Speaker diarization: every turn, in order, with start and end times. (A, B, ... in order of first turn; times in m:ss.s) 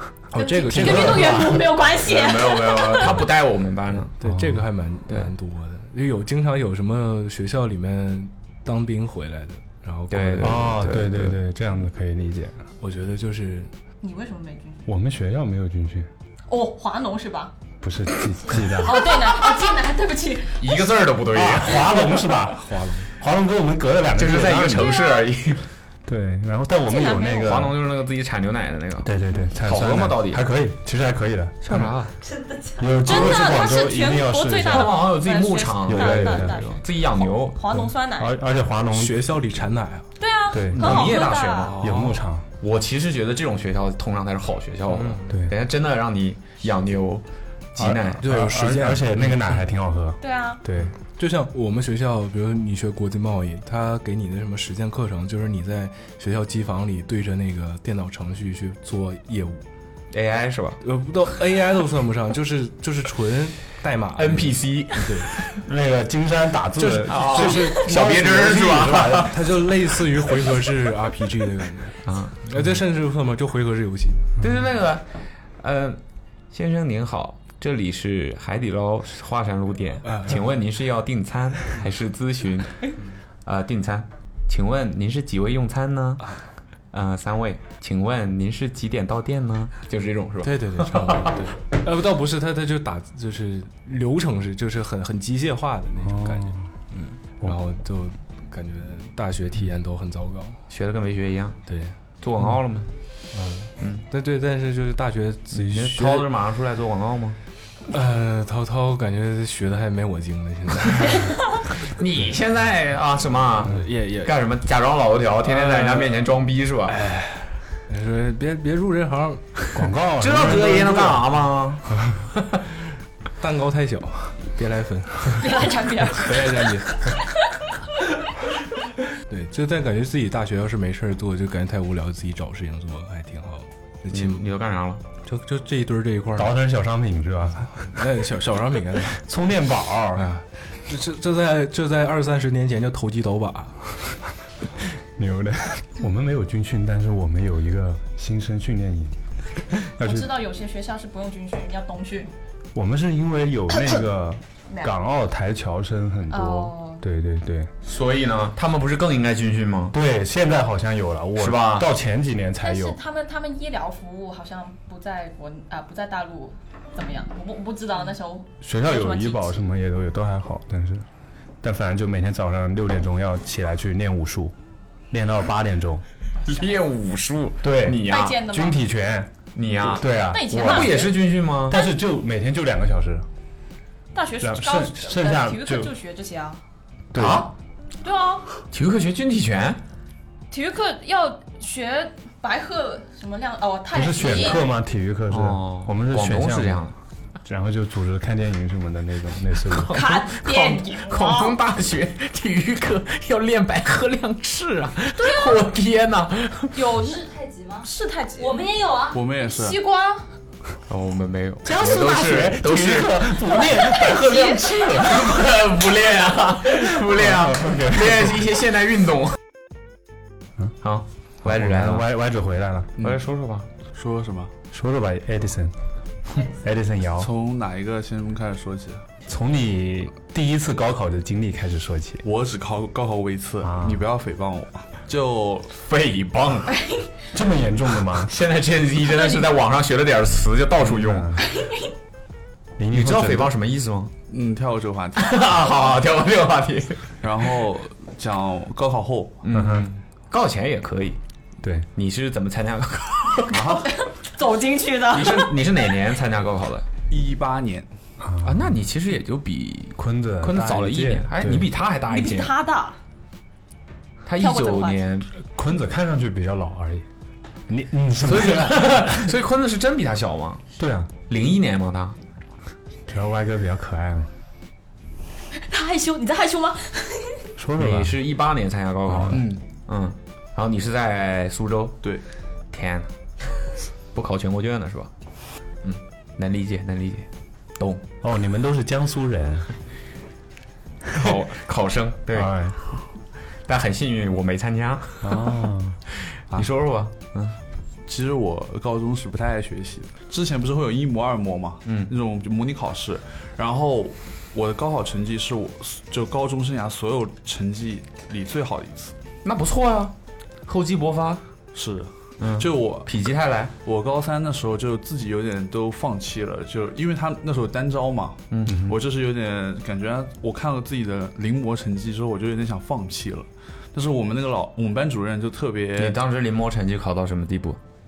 0:00.3-0:01.6 A
0:00.3-0:03.2 B
0:00.7-0:01.7 C
0:01.9-0:04.1 D
0:04.2-0:10.8 A
0:04.2-0:04.6 C
0:10.1-0:11.4 D
0:10.4-0:12.6 C
0:12.8-0:13.7 A
0:14.0-0:14.9 B
0:14.8-0:16.1 C
0:16.5-0:17.5 B
0:17.8-0:19.1 C
0:18.7-0:20.8 B
0:20.6-0:22.0 D
0:21.3-0:25.0 C
0:22.6-0:23.1 A
0:24.2-0:25.6 D
0:24.8-0:25.2 B
0:26.0-0:27.8 C
0:26.8-0:27.6 B
0:27.4-0:30.4 D
0:29.0-0:31.9 C
0:31.6-0:32.1 D
0:32.2-0:32.9 E
0:32.8-0:35.0 C
0:33.0-0:38.4 B
0:34.7-0:37.6 D
0:35.9-0:36.6 C
0:37.7-0:39.3 C
0:38.9-0:40.1 A
0:40.2-0:41.8 B
0:40.5-0:41.1 C
0:40.7-0:42.1 D
0:41.8-0:42.2 A
0:41.8-0:42.5 C
0:42.6-0:47.2 D
0:44.9-0:45.4 A
0:45.3-0:45.5 C
0:47.7-0:48.2 D
0:47.8-0:50.9 C
0:48.2-0:49.6 A
0:50.2-0:50.6 B
0:50.8-0:59.6 A
1:00.1-1:00.8 D
1:00.8-1:05.3 A
1:04.2-1:05.5 D
1:05.6-1:09.5 C
1:06.8-1:08.1 A
1:07.0-1:09.3 D
1:09.1-1:14.3 A
1:12.0-1:12.4 D
1:14.4-1:16.0 D
1:16.5-1:22.9 D
1:20.0-1:20.4 A
1:23.4-1:26.3 D
1:26.9-1:31.3 D
1:30.4-1:40.6 A
1:36.0-1:36.6 C
1:40.7-1:41.6 D
1:41.7-1:41.9 A
1:42.2-1:42.9 D
1:43.3-1:46.3 A
1:43.8-1:44.0 D
1:45.6-1:47.4 D
1:47.9-1:51.7 A
1:51.9-1:57.0 D
1:53.6-1:54.3 A
1:55.4-1:56.3 A
1:56.9-1:59.8 A
1:59.7-2:01.2 C
2:00.2-2:01.9 D
2:00.5-2:01.1 A
2:03.4-2:07.2 A
2:05.4-2:07.1 B
2:09.3-2:14.4 A
2:14.1-2:15.0 D
2:15.2-2:16.6 A
2:16.3-2:18.0 C
2:17.8-2:19.2 A
2:19.1-2:20.3 C
2:20.1-2:24.2 A
2:25.1-2:29.2 C
2:29.7-2:30.3 C
2:30.0-2:32.3 B
2:32.7-2:37.7 C
2:36.3-2:37.0 B
2:37.8-2:39.9 D
2:39.9-2:43.0 C
2:41.4-2:41.9 D
2:42.6-2:49.6 B
2:48.6-2:51.0 C
2:51.6-2:54.5 C
2:55.1-2:56.0 C
2:56.4-2:58.4 D
2:57.6-3:01.0 C
2:58.0-2:58.8 B
2:59.5-3:01.8 D
3:00.2-3:01.9 B
3:01.7-3:03.2 C
3:04.1-3:06.6 B
3:04.4-3:05.9 C
3:07.1-3:07.5 C
3:07.2-3:07.5 D
3:08.0-3:08.5 B
3:08.7-3:09.8 D
3:10.5-3:14.7 B
3:13.9-3:16.8 C
3:15.3-3:16.9 D
3:17.4-3:20.0 C
3:19.7-3:26.8 D
3:19.9-3:21.6 B
3:25.2-3:25.6 B
3:26.7-3:27.3 B
3:27.1-3:29.2 E
3:27.8-3:28.6 B
3:29.1-3:29.8 F
3:29.4-3:30.2 B
3:30.9-3:34.0 D
3:31.6-3:35.2 C
3:34.0-3:35.0 B
3:34.9-3:39.4 D
3:36.9-3:38.4 C
3:40.8-3:42.1 D
3:41.4-3:42.9 C
3:43.0-3:43.7 D
3:43.9-3:44.5 F
3:44.7-3:45.7 C
3:46.4-3:47.3 C
3:47.2-3:49.0 F
3:49.3-3:52.2 C
3:52.2-3:55.7 F
3:53.6-3:54.0 C
3:55.7-3:56.8 D
3:57.3-3:58.3 C
3:58.2-4:01.3 D
3:59.1-3:59.5 B
4:00.8-4:01.5 C
4:02.8-4:03.5 C
4:02.9-4:04.1 D
4:04.3-4:06.0 F
4:05.2-4:07.1 D
4:07.2-4:09.4 F
4:09.4-4:11.2 D
4:09.5-4:09.9 C
4:11.6-4:11.9 C
4:11.9-4:13.8 D
4:13.7-4:15.6 B
4:15.1-4:16.9 D
4:17.1-4:17.9 F
4:18.2-4:18.7 C
4:18.4-4:22.5 D
4:20.0-4:21.7 C
4:22.1-4:23.0 B
4:24.2-4:25.3 D
4:24.4-4:25.0 B
4:25.5-4:27.0 C
4:27.7-4:29.3 C
4:28.2-4:30.6 D
4:30.8-4:31.1 C
4:31.3-4:32.2 D
4:33.1-4:34.3 C
4:35.5-4:37.4 B
4:37.6-4:38.2 C
4:37.8-4:42.0 D
4:39.1-4:39.4 C
4:39.3-4:39.6 F
4:42.7-4:43.1 D
4:44.1-4:45.1 D
4:45.8-4:48.0 D
4:48.2-4:49.7 C
4:51.1-4:52.6 D
4:52.3-4:52.8 C
4:53.6-4:55.5 D
4:55.2-4:56.0 C
4:56.5-4:57.6 D
4:58.1-5:09.1 F
5:09.4-5:10.1 D
5:10.6-5:11.4 D
5:11.7-5:13.2 F
5:12.4-5:13.7 D
5:13.8-5:26.2 F
5:18.5-5:19.0 D
5:26.0-5:27.8 D